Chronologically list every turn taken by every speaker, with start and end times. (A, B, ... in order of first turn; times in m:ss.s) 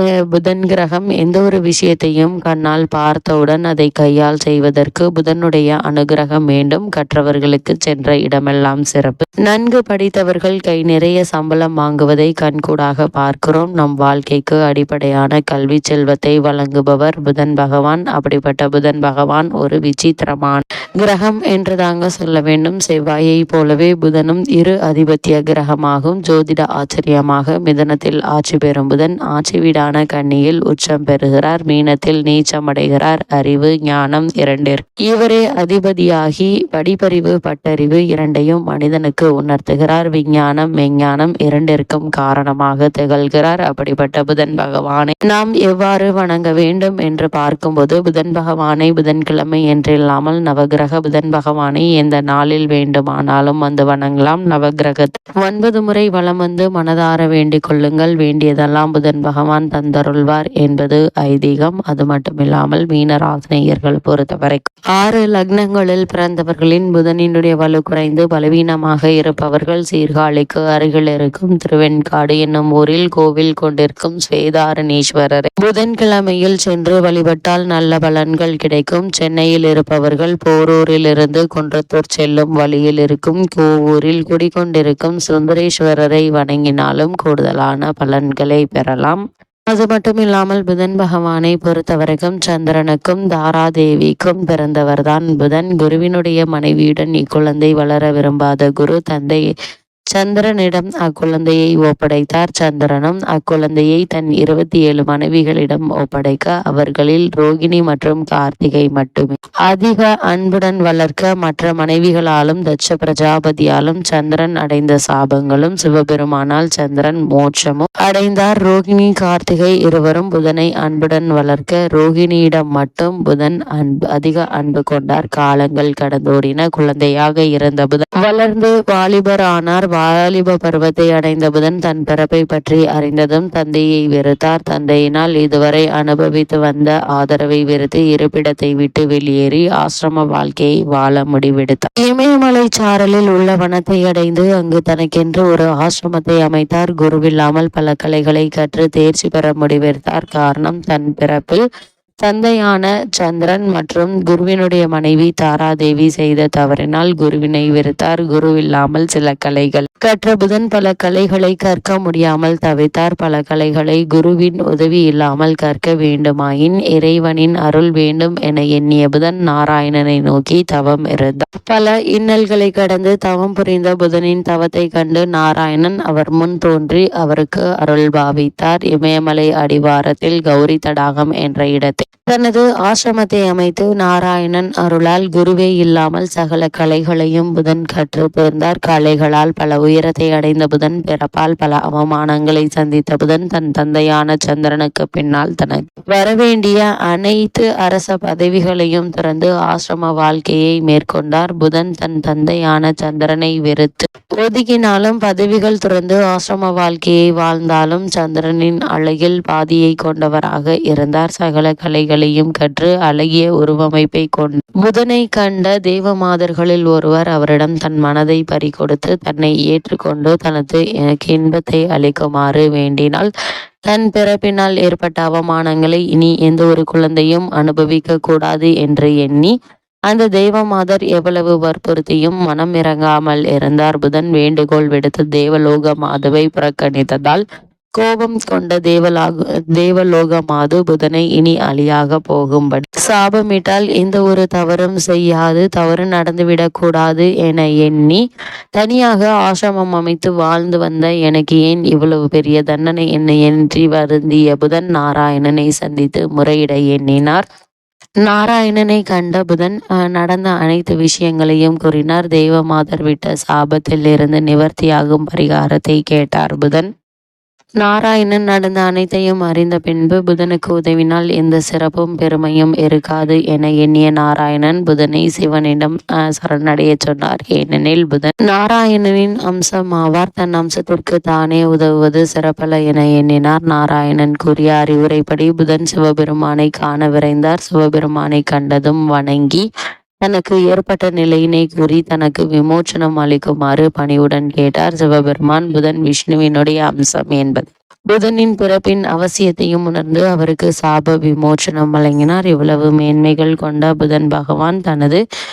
0:00.3-1:39.4 A
1:40.1-2:31.6 A
2:32.2-3:43.3 A
3:43.9-3:49.5 A
3:50.1-3:57.4 A
3:58.0-4:08.2 A
4:08.8-4:17.4 A
4:18.2-4:26.9 A
4:27.8-4:49.6 A
4:50.2-5:05.2 A